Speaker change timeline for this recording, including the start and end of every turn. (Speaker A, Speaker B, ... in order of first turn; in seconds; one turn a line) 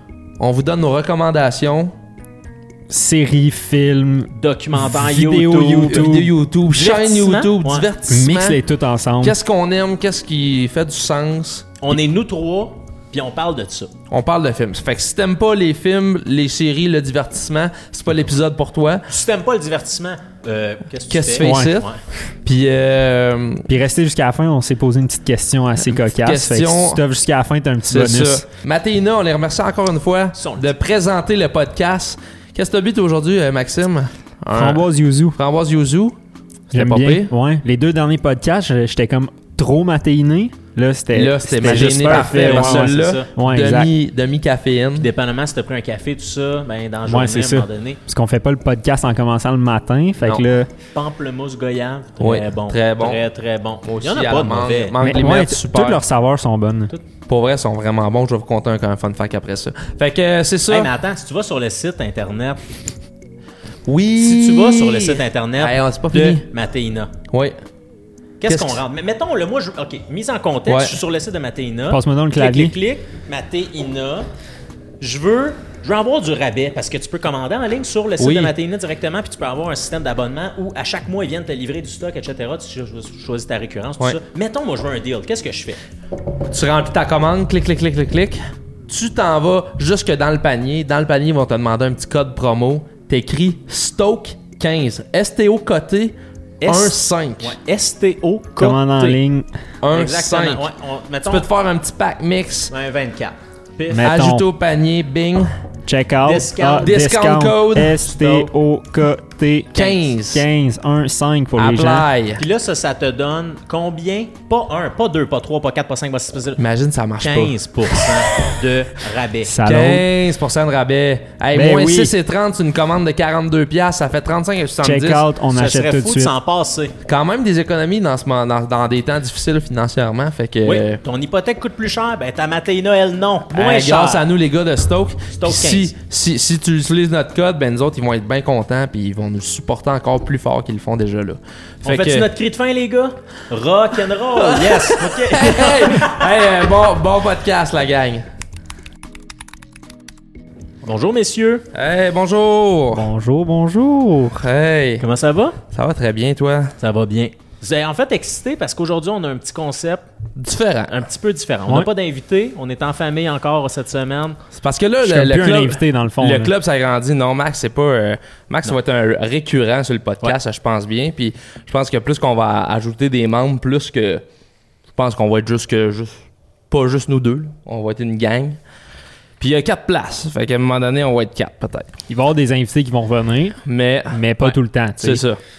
Speaker A: 0.4-1.9
Speaker B: 2.9-6.3
Speaker C: 4.3-6.2
Speaker A: 5.8-8.6
Speaker C: 6.7-7.9
Speaker B: 8.1-9.4
Speaker A: 9.2-11.7
Speaker C: 11.8-13.9
Speaker A: 14.1-19.1
Speaker C: 19.1-22.0
Speaker A: 21.1-21.9
Speaker B: 21.4-21.7
Speaker A: 22.4-23.7
Speaker B: 23.7-28.4
Speaker A: 25.8-27.0
Speaker A: 27.8-36.1
Speaker C: 30.3-30.7
Speaker B: 34.5-35.4
Speaker A: 36.7-37.3
Speaker B: 36.7-43.9
Speaker A: 41.1-45.1
Speaker C: 41.6-43.3
Speaker C: 45.0-48.0
Speaker B: 47.1-50.7
Speaker C: 50.9-55.0
Speaker A: 52.2-53.2
Speaker A: 53.8-56.0
Speaker B: 55.0-56.9
Speaker A: 57.3-60.9
Speaker C: 60.7-62.6
Speaker A: 63.9-66.5
Speaker C: 64.2-67.1
Speaker A: 67.3-67.5
Speaker C: 68.4-74.3
Speaker A: 68.5-68.8
Speaker A: 70.7-71.0
Speaker B: 71.9-72.7
Speaker C: 75.0-85.8
Speaker A: 78.2-78.5
Speaker A: 86.5-97.6
Speaker C: 96.6-99.2
Speaker B: 98.6-99.5
Speaker A: 99.8-100.7
Speaker C: 99.9-101.5
Speaker A: 101.2-102.7
Speaker C: 102.7-104.1
Speaker B: 103.9-104.4
Speaker A: 104.0-105.5
Speaker B: 105.8-112.1
Speaker C: 106.2-107.0
Speaker A: 106.8-108.0
Speaker C: 108.0-108.5
Speaker A: 109.7-110.5
Speaker A: 111.6-112.4
Speaker C: 112.4-116.6
Speaker A: 116.6-118.5
Speaker C: 117.2-119.5
Speaker B: 119.4-120.0
Speaker A: 119.6-125.2
Speaker B: 121.5-122.1
Speaker B: 124.8-126.3
Speaker C: 125.5-126.9
Speaker A: 127.0-131.0
Speaker C: 130.6-134.2
Speaker A: 133.5-142.3
Speaker C: 135.3-135.9
Speaker C: 141.8-146.7
Speaker A: 144.3-148.2
Speaker C: 150.8-151.7
Speaker A: 151.7-153.1
Speaker B: 152.9-154.4
Speaker A: 154.4-155.1
Speaker C: 155.0-155.6
Speaker A: 155.7-156.8
Speaker C: 156.8-160.1
Speaker A: 160.4-161.0
Speaker C: 160.9-164.4
Speaker A: 164.6-174.2
Speaker B: 165.0-166.5
Speaker A: 174.9-178.6
Speaker A: 179.4-181.9
Speaker B: 182.1-185.2
Speaker A: 183.6-185.4